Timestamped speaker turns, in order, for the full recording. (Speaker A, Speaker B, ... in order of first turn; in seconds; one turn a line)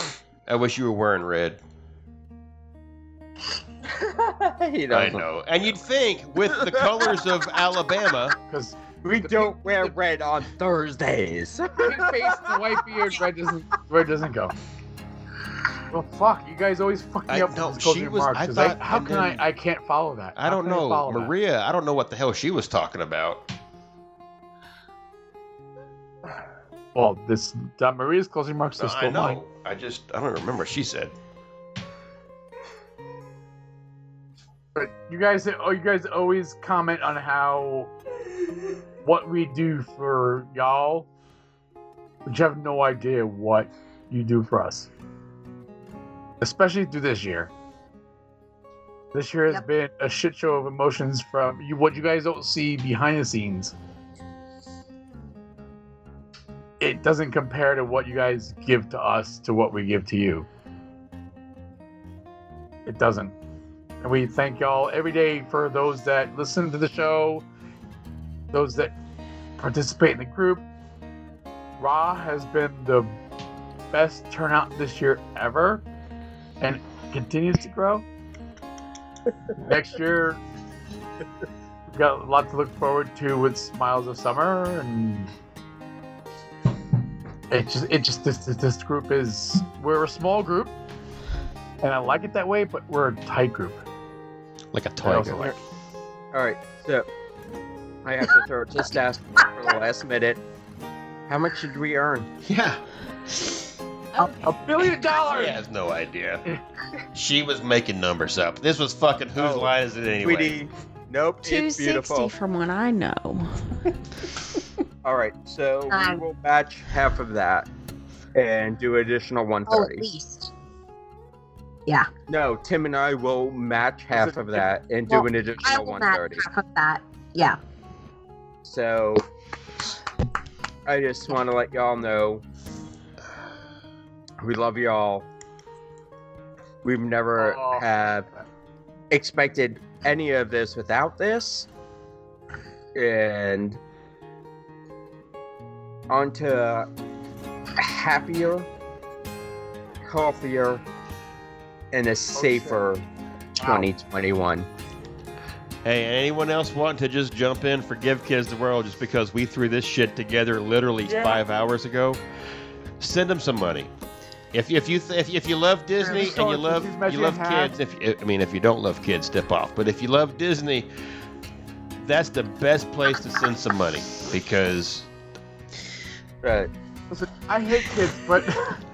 Speaker A: 0.5-1.6
Speaker B: 3.9-5.2
Speaker A: 4.9-8.4
Speaker B: 6.5-7.2
Speaker C: 8.4-9.9
Speaker B: 9.0-12.6
Speaker C: 11.8-14.5
Speaker C: 15.9-21.3
Speaker A: 17.3-19.4
Speaker A: 20.4-23.4
Speaker C: 26.9-29.4
Speaker A: 28.8-31.1
Speaker C: 34.7-37.9
Speaker C: 39.0-41.1
Speaker C: 42.2-44.9
Speaker C: 46.4-47.5
Speaker C: 49.1-53.7
Speaker C: 56.8-60.5
Speaker C: 62.9-63.3
Speaker C: 64.0-67.4
Speaker C: 68.5-68.9
Speaker C: 69.6-70.6
Speaker C: 71.8-73.2
Speaker C: 73.9-75.8
Speaker C: 76.6-78.0
Speaker C: 79.6-80.4
Speaker C: 81.9-85.3
Speaker C: 87.5-90.7
Speaker C: 91.8-93.8
Speaker A: 94.7-95.5
Speaker C: 95.0-95.5
Speaker B: 95.1-95.5
Speaker B: 96.3-97.1
Speaker B: 98.0-100.4
Speaker B: 101.3-102.3
Speaker A: 102.4-102.8
Speaker D: 104.2-104.9
Speaker C: 104.4-105.6
Speaker A: 105.1-106.4
Speaker A: 107.1-110.6
Speaker B: 109.3-112.3
Speaker D: 111.4-113.6
Speaker B: 115.0-117.7
Speaker E: 115.9-116.2
Speaker B: 118.3-120.1
Speaker E: 119.7-120.5
Speaker B: 122.3-126.4
Speaker E: 125.1-127.6
Speaker B: 128.6-129.2
Speaker B: 130.8-132.4
Speaker B: 134.4-135.3
Speaker B: 136.8-138.3
Speaker C: 137.4-137.9
Speaker B: 139.1-141.7
Speaker B: 142.9-143.8
Speaker B: 146.1-146.9
Speaker B: 147.8-148.7
Speaker B: 150.0-150.8
Speaker B: 151.9-153.0
Speaker C: 152.3-152.8
Speaker B: 153.6-154.7
Speaker C: 153.6-153.9
Speaker A: 155.8-162.2
Speaker A: 163.0-163.9
Speaker A: 164.5-170.9
Speaker C: 166.0-167.7
Speaker A: 172.0-175.1
Speaker B: 176.4-176.7
Speaker C: 177.1-178.7